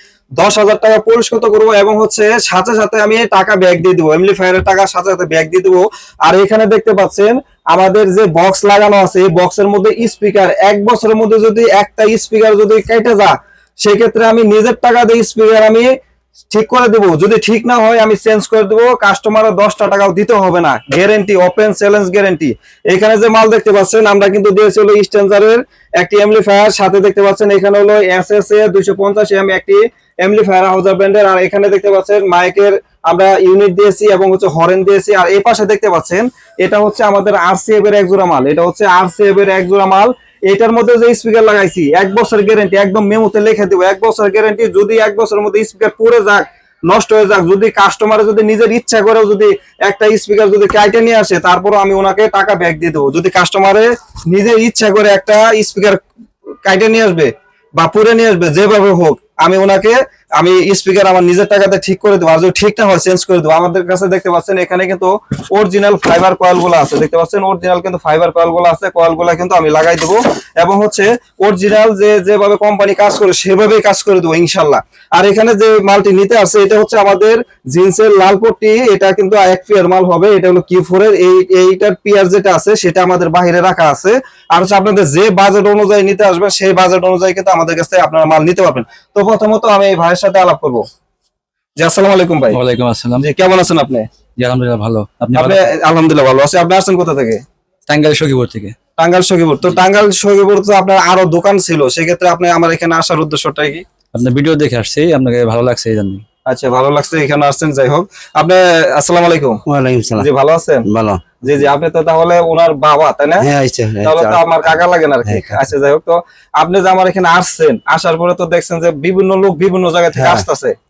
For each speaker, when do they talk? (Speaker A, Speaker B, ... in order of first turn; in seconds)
Speaker A: 0.4-15.9, 16.5-56.0, 56.7-90.8, 91.8-92.6, 93.2-94.1, 95.4-97.4, 99.0-103.8, 106.5-109.6, 110.2-110.9, 111.4-113.5, 114.0-120.7
Speaker B: 92.5-93.2, 94.4-95.7, 97.9-98.8, 104.1-106.2
Speaker C: 109.7-110.3, 110.9-111.7, 113.4-114.6, 115.2-115.6, 120.1-120.5